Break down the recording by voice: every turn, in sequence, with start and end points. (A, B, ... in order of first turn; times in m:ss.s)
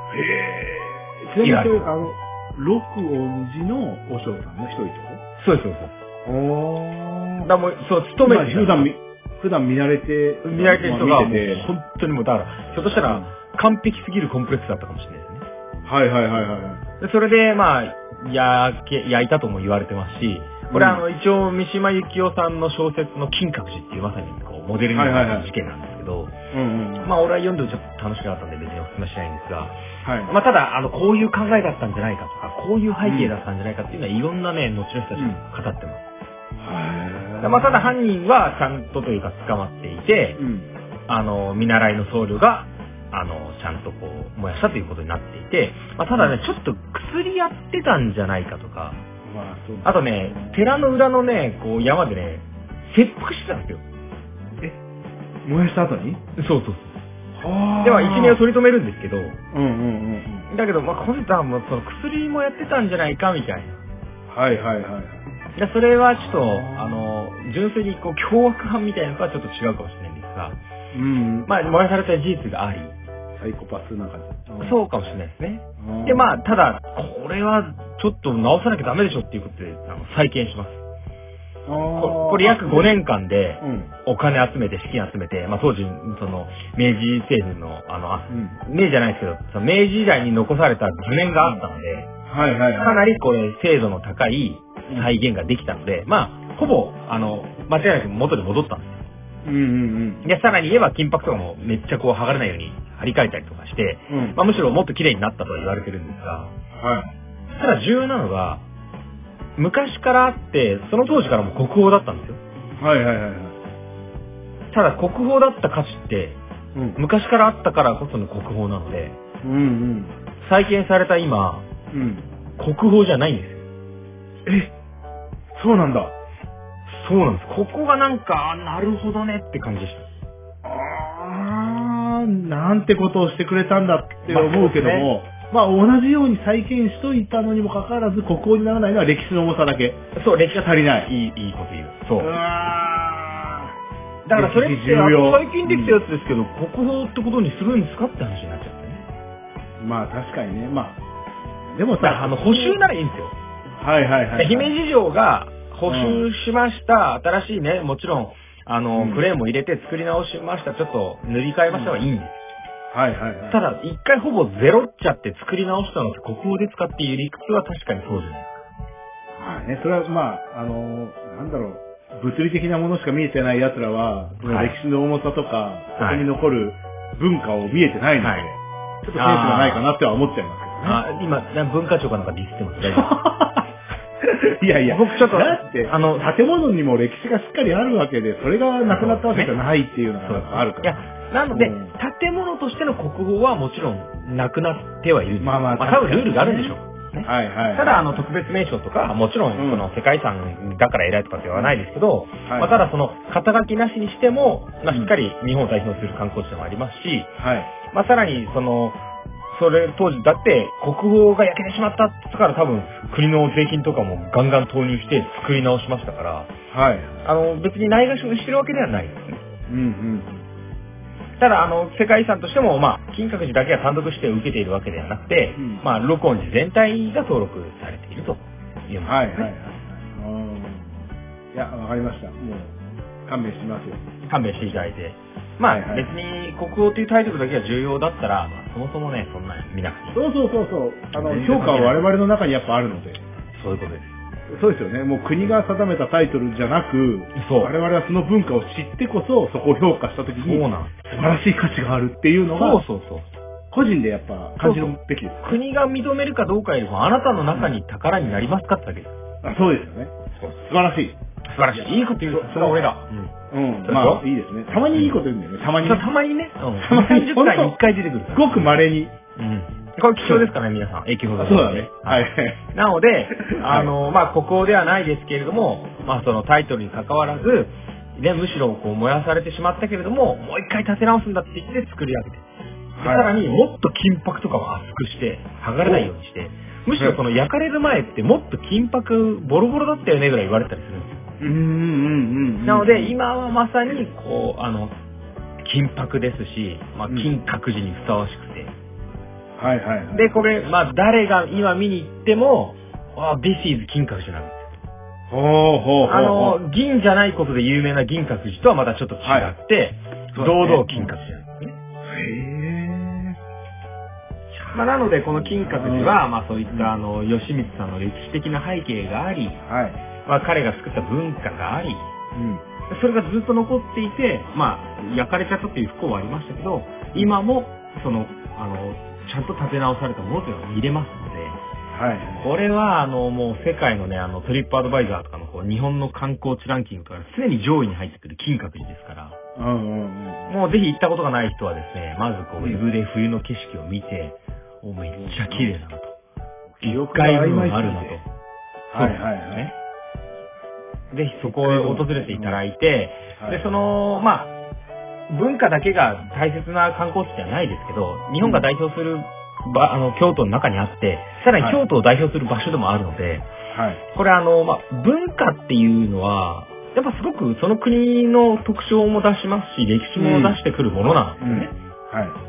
0:00.1-0:05.2 A
0:01.4-0:01.9 B
0:05.4-0:05.9 B
0:06.3-0:07.5 A
0:07.4-0:08.9 B
0:08.2-0:11.7 A
0:10.4-0:15.5 B
0:12.9-0:13.3 A
0:15.9-0:16.8 A
0:17.0-0:26.3 B
0:20.7-0:21.0 A
0:24.9-0:25.5 A
0:26.5-0:27.1 A
0:27.0-0:36.0 B
0:30.0-0:30.3 A
0:33.0-0:33.3 A
0:35.2-0:35.4 A
0:36.6-0:37.9 A
0:37.4-0:40.4 B
0:40.4-0:40.7 A
0:41.1-0:49.0 B
0:49.3-0:50.6 A
0:49.8-0:53.8 B
0:55.4-0:56.2 A
0:56.4-0:57.0 B
0:57.4-0:58.4 A
0:57.8-0:59.4 B
0:59.5-1:00.5 A
1:00.5-1:03.8 B
1:04.3-1:05.2 A
1:05.6-1:10.6 B
1:06.1-1:07.1 A
1:10.9-1:11.5 A
1:11.5-1:13.0 B
1:13.4-1:14.8 A
1:14.6-1:20.8 B
1:15.8-1:16.4 A
1:21.7-1:23.0 A
1:22.0-1:32.1 B
1:23.6-1:23.9 A
1:28.3-1:28.6 A
1:32.3-1:33.0 A
1:32.8-1:39.0 B
1:39.4-1:40.3 A
1:40.2-1:46.5 B
1:44.1-1:44.4 A
1:46.8-1:47.1 A
1:47.6-1:48.6 B
1:49.6-1:52.4 B
1:52.8-1:53.6 A
1:54.7-1:56.4 B
1:56.8-1:57.0 A
1:57.0-1:59.2 B
1:59.4-2:00.1 A
2:00.4-2:01.7 B
2:01.9-2:02.3 A
2:02.6-2:03.6 B
2:04.5-2:04.7 A
2:05.5-2:06.1 A
2:06.9-2:10.1 B
2:10.6-2:20.0 A
2:14.3-2:15.1 B
2:20.2-2:22.3 B
2:20.5-2:21.1 A
2:22.2-2:23.7 A
2:24.3-2:29.0 B
2:24.3-2:26.0 A
2:29.8-2:31.0 A
2:31.7-2:32.8 A
2:32.0-2:33.4 B
2:33.8-2:34.7 A
2:34.4-2:42.4 B
2:35.9-2:36.2 A
2:39.0-2:39.2 A
2:42.9-2:43.6 A
2:43.5-2:48.6 B
2:49.4-3:01.0 A
2:54.4-2:54.8 B
2:56.0-2:56.3 B
2:58.2-2:58.5 B
2:59.2-2:59.9 B
3:00.8-3:03.1 B
3:02.8-3:03.7 A
3:04.2-3:11.9 A
3:04.8-3:06.3 B
3:08.9-3:09.6 B
3:10.2-3:27.3 B
3:15.4-3:18.3 A
3:19.6-3:19.9 A
3:22.4-3:22.8 A
3:27.4-3:27.7 A
3:27.9-3:29.0 B
3:29.5-3:36.5 B
3:36.7-3:37.2 A
3:37.2-3:39.4 B
3:39.7-3:40.4 A
3:41.4-3:49.5 B
3:45.6-3:45.8 A
3:49.0-3:51.0 A
3:51.5-3:52.8 A
3:53.3-3:54.1 A
3:54.3-4:00.2 B
3:55.7-3:56.1 A
4:00.1-4:03.2 A
4:01.1-4:02.1 B
4:03.6-4:04.2 B
4:04.5-4:12.8 A
4:07.4-4:07.7 B
4:10.4-4:10.9 B
4:12.6-4:13.3 B
4:13.7-4:15.6 A
4:14.6-4:19.2 B
4:19.4-4:20.1 A
4:20.6-4:21.2 A
4:21.5-4:23.3 B
4:21.7-4:22.9 A
4:23.5-4:26.1 A
4:23.9-4:24.2 B
4:24.9-4:25.2 B
4:25.8-4:28.7 B
4:26.8-4:27.8 A
4:28.3-4:29.1 A
4:29.4-4:42.4 B
4:30.2-4:30.5 A
4:31.4-4:32.6 A
4:33.4-4:33.9 A
4:43.0-4:43.3 A
4:43.0-4:51.2 B
4:45.8-4:46.1 A
4:51.4-4:53.2 A
4:52.6-4:55.0 B
4:55.6-4:58.7 B
4:59.6-5:00.3 A
5:00.1-5:04.7 B
5:05.3-5:06.6 A
5:06.0-5:11.8 B
5:09.2-5:09.5 A
5:10.3-5:11.2 A
5:12.0-5:13.4 A
5:14.5-5:19.6 B
5:15.4-5:16.9 A
5:19.6-5:20.0 A
5:20.3-5:22.1 B
5:22.4-5:22.6 A
5:22.9-5:31.6 B
5:31.9-5:32.5 A
5:32.4-5:39.4 B
5:39.6-5:40.5 A
5:40.5-5:46.2 B
5:45.2-5:45.7 A
5:46.8-5:48.2 A
5:46.8-5:48.3 B
5:48.9-5:49.7 A
5:48.9-5:49.7 B
5:51.1-5:54.5 B
5:51.5-5:52.6 A
5:53.4-5:53.6 A
5:55.3-6:03.5 B
5:58.4-5:58.7 A
6:03.7-6:04.0 A
6:04.2-6:11.7 B
6:10.2-6:10.6 A
6:11.4-6:12.4 A